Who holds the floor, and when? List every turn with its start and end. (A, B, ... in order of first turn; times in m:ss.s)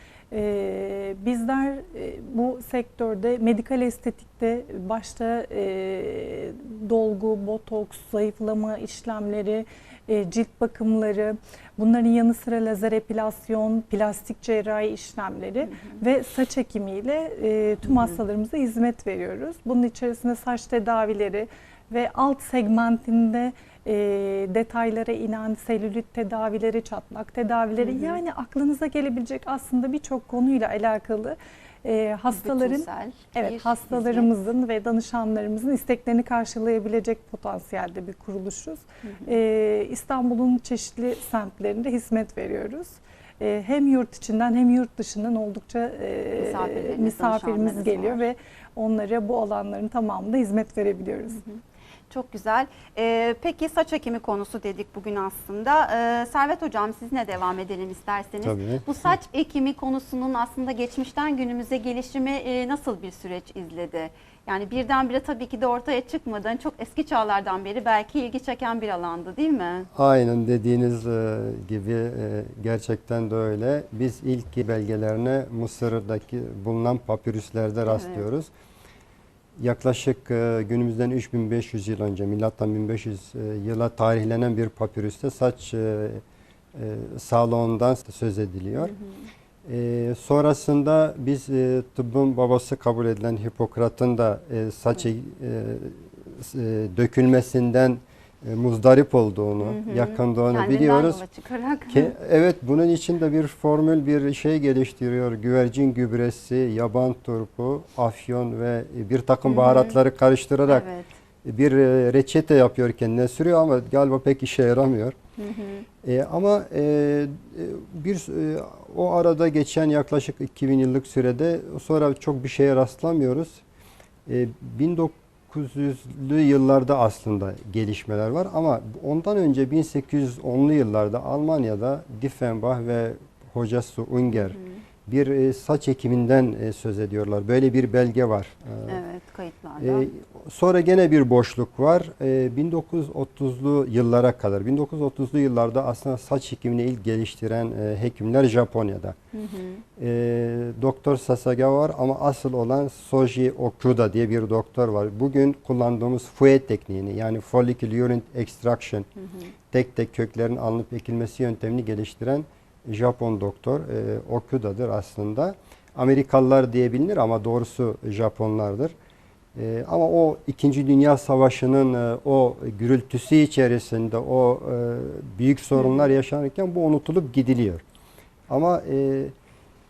0:00.3-0:51.4 A
0:15.6-0:16.0 B
0:17.8-0:18.2 B
0:27.8-0:28.2 B
0:32.3-0:34.3 B
0:39.0-0:39.4 B
0:46.4-0:48.3 B
0:51.3-1:09.9 B
0:58.4-0:59.2 C
1:09.9-1:18.5 C
1:17.9-1:18.2 B
1:19.6-1:28.9 C
1:28.8-1:29.3 B
1:29.6-1:41.2 C
1:39.6-1:42.1 B
1:41.9-1:50.9 C
1:49.5-1:50.0 B
1:50.6-1:51.0 B
1:51.4-1:55.2 C
1:55.4-1:55.9 B
1:56.0-2:03.6 C
2:04.2-2:19.0 C
2:14.3-2:14.8 B
2:18.9-2:20.1 B
2:19.8-2:29.2 C
2:29.3-2:29.8 B
2:30.0-2:39.1 C
2:39.2-2:39.5 B
2:39.7-2:48.9 C
2:49.5-2:57.8 C
2:58.5-2:59.3 C